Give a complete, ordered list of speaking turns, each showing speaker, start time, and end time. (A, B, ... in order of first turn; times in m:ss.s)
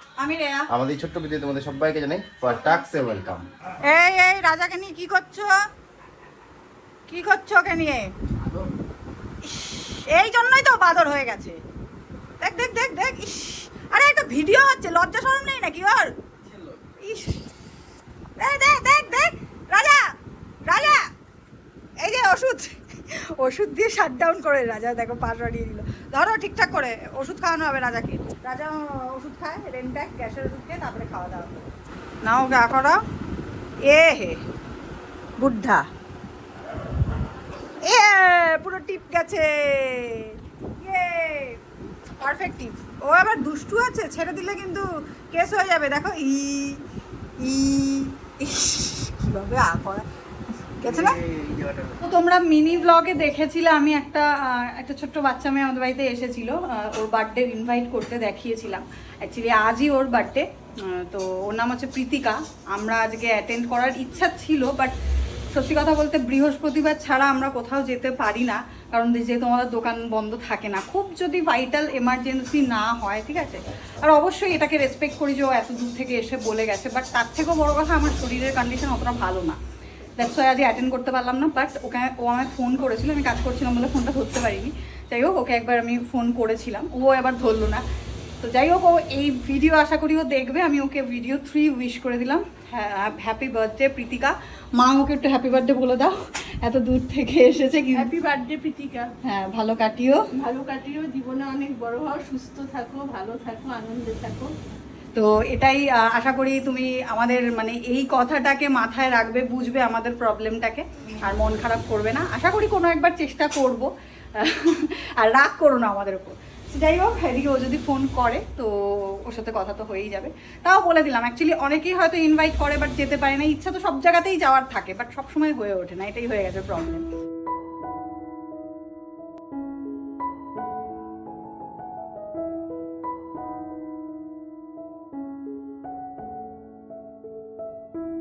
0:00.2-0:00.7 A
0:00.7-0:03.5 B
0:02.5-0:05.5 A
0:07.1-0:08.1 A
0:09.4-0:11.6 A
0:12.4-0:16.1 A
0:17.0-0:17.5 A
0:18.4-0:20.0 A
0:20.7-0:21.0 A
0:22.0-0:22.8 A
0:23.4-0:31.6 A
0:32.2-0:33.0 A
0:33.9-0:34.4 A
0:35.4-0:35.8 A
0:37.8-0:41.6 A
0:42.2-0:46.8 A
0:47.4-0:50.0 A
0:50.8-0:51.2 A
0:52.0-1:04.9 A
1:05.5-1:19.6 A
1:20.2-1:27.8 A
1:28.4-1:38.1 A
1:37.9-1:39.1 C
1:39.3-1:40.2 A
1:40.4-1:44.5 C
1:45.2-1:53.9 A
1:54.4-2:07.0 A